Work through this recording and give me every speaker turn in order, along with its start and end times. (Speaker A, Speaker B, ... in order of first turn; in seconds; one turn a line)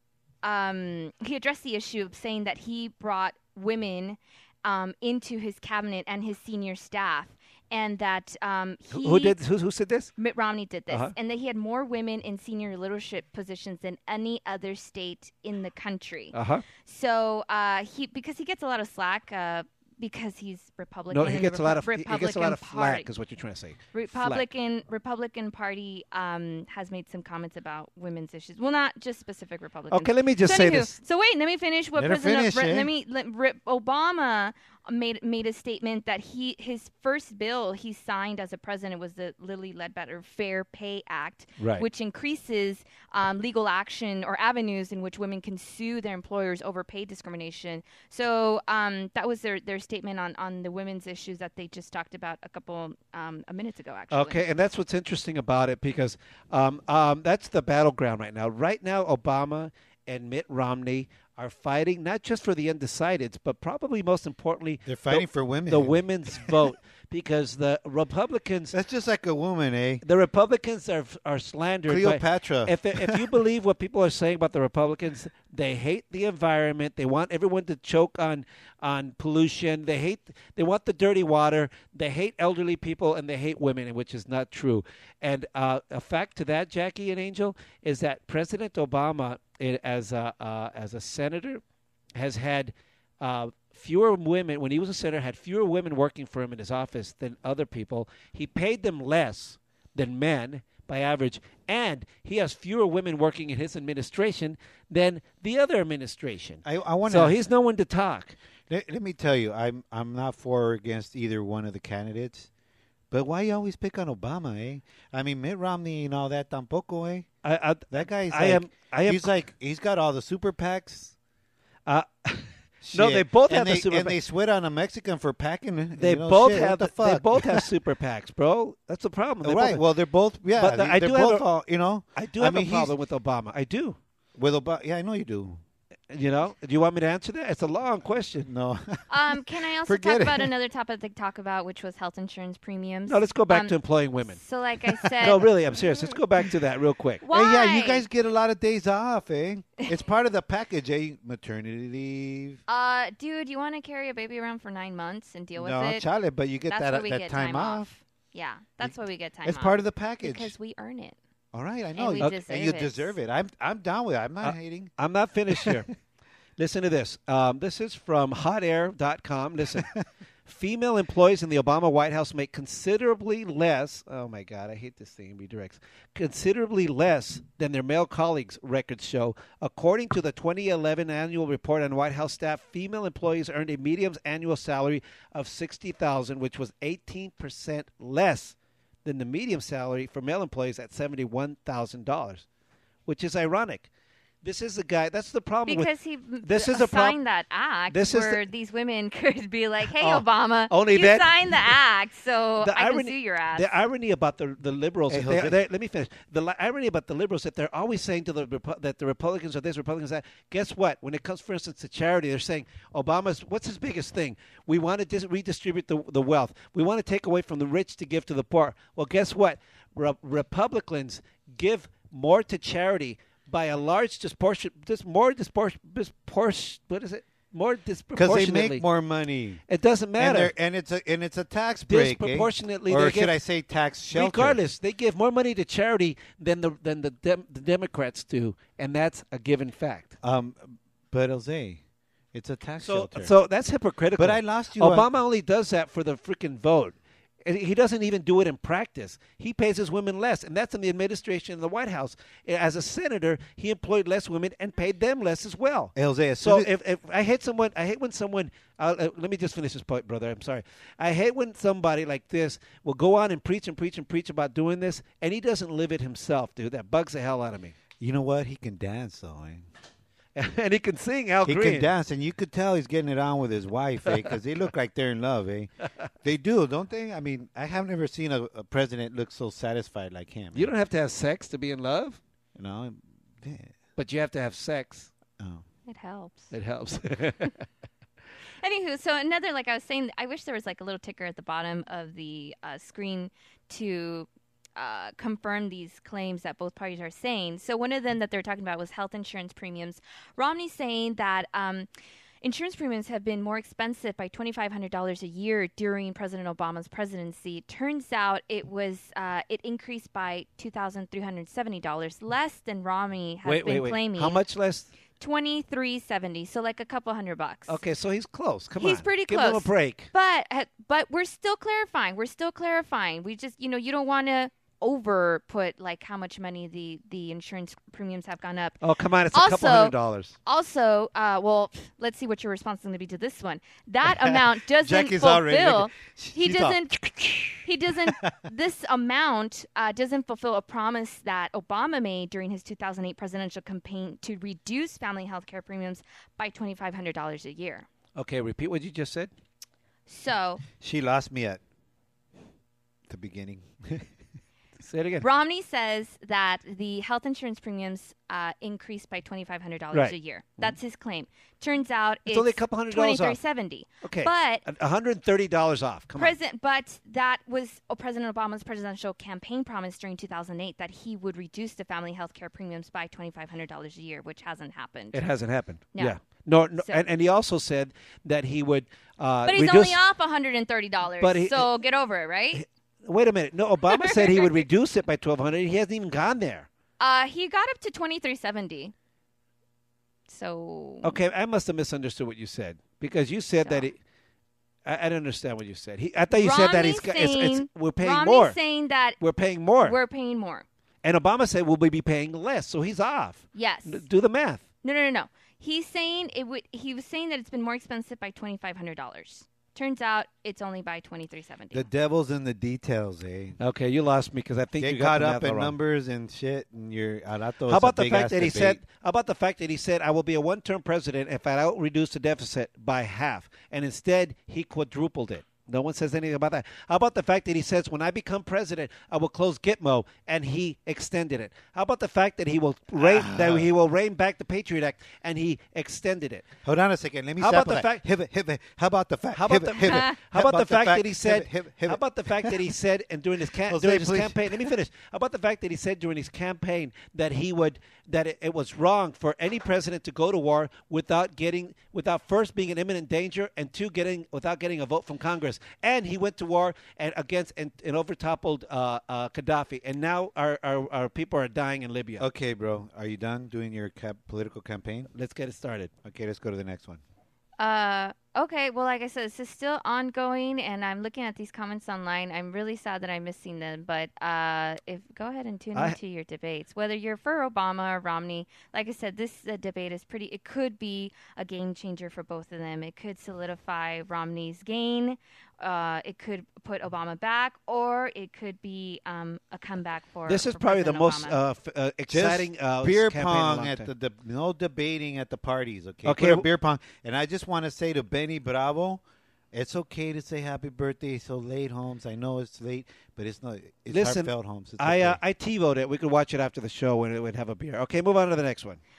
Speaker A: 0.4-9.4
Speaker B: 8.9-10.1
Speaker A: 10.2-23.1
Speaker B: 16.3-16.6
Speaker B: 21.1-24.4
Speaker A: 23.9-54.5
Speaker B: 29.9-30.9
Speaker C: 31.9-32.9
Speaker B: 41.6-41.8
Speaker B: 54.1-68.7
Speaker C: 64.8-66.5
Speaker C: 68.7-70.0
Speaker B: 70.0-91.6
Speaker C: 71.9-73.3
Speaker B: 92.2-108.3
Speaker C: 106.6-107.4
Speaker C: 108.7-112.5
Speaker C: 113.1-117.3
Speaker B: 117.4-119.3
Speaker C: 117.9-121.1
Speaker B: 121.9-124.2
Speaker C: 122.8-127.7
Speaker B: 126.0-129.8
Speaker C: 129.4-132.9
Speaker B: 130.6-131.5
Speaker B: 132.1-134.0
Speaker C: 134.3-135.6
Speaker B: 136.1-138.5
Speaker C: 138.4-139.0
Speaker A: 139.1-143.7
Speaker C: 139.8-140.5
Speaker B: 143.1-144.4
Speaker A: 144.3-145.5
Speaker B: 145.0-147.2
Speaker A: 147.2-148.1
Speaker C: 147.3-152.6
Speaker A: 152.7-156.1
Speaker C: 155.6-157.9
Speaker A: 156.7-161.2
Speaker C: 159.4-160.5
Speaker C: 161.5-164.9
Speaker A: 161.9-163.1
Speaker B: 164.4-165.9
Speaker C: 165.5-165.8
Speaker B: 166.6-169.9
Speaker B: 170.4-192.4
Speaker B: 193.1-193.9
Speaker B: 194.4-195.9
Speaker A: 195.7-203.7
Speaker B: 196.4-197.2
Speaker B: 197.9-198.4
Speaker B: 200.0-201.5
Speaker B: 202.6-228.8
Speaker C: 205.1-205.6
Speaker C: 228.1-229.6
Speaker B: 229.7-230.5
Speaker C: 230.2-234.6
Speaker B: 231.9-233.4
Speaker B: 234.1-240.1
Speaker C: 240.2-241.8
Speaker C: 242.3-243.3
Speaker B: 242.8-267.8
Speaker C: 244.2-245.1
Speaker C: 255.9-256.7
Speaker C: 268.0-269.7
Speaker B: 270.4-271.9
Speaker C: 271.4-275.7
Speaker B: 274.1-274.3
Speaker C: 276.2-280.7
Speaker B: 280.5-282.2
Speaker C: 282.6-283.7
Speaker B: 284.0-285.1
Speaker A: 285.9-286.5
Speaker B: 286.5-287.6
Speaker A: 288.6-301.9
Speaker A: 302.4-314.4
Speaker B: 313.4-314.9
Speaker A: 315.2-317.8
Speaker B: 317.7-320.1
Speaker A: 318.8-328.8
Speaker B: 328.8-330.4
Speaker A: 329.3-337.0
Speaker C: 334.0-338.3
Speaker A: 337.6-347.9
Speaker B: 348.1-349.3
Speaker A: 350.1-350.6
Speaker C: 350.8-351.6
Speaker C: 353.1-354.1
Speaker B: 354.8-355.3
Speaker A: 355.2-364.6
Speaker B: 359.9-360.7
Speaker B: 362.3-363.4
Speaker B: 364.0-366.4
Speaker A: 366.1-375.2
Speaker B: 375.1-380.0
Speaker A: 376.8-377.0
Speaker A: 379.4-382.6
Speaker B: 381.2-381.7
Speaker B: 382.5-386.7
Speaker A: 383.9-384.7
Speaker A: 387.0-388.9
Speaker A: 390.3-391.1
Speaker B: 391.0-394.0
Speaker A: 393.6-393.9
Speaker B: 394.8-398.6
Speaker A: 396.3-399.2
Speaker B: 399.2-400.0
Speaker A: 399.8-400.6
Speaker B: 401.0-404.6
Speaker A: 403.5-404.0
Speaker A: 404.8-411.9
Speaker C: 411.7-413.6
Speaker B: 413.6-415.8
Speaker C: 414.8-418.8
Speaker B: 417.7-436.5
Speaker C: 432.9-433.7
Speaker C: 436.6-442.6
Speaker B: 437.4-438.0
Speaker B: 439.3-462.3
Speaker A: 439.8-440.2
Speaker C: 443.7-444.7
Speaker C: 462.2-465.1
Speaker B: 465.1-465.9
Speaker C: 466.0-467.0
Speaker A: 467.6-491.4
Speaker B: 490.3-493.9
Speaker C: 492.1-505.2
Speaker B: 496.0-496.4
Speaker B: 503.9-508.8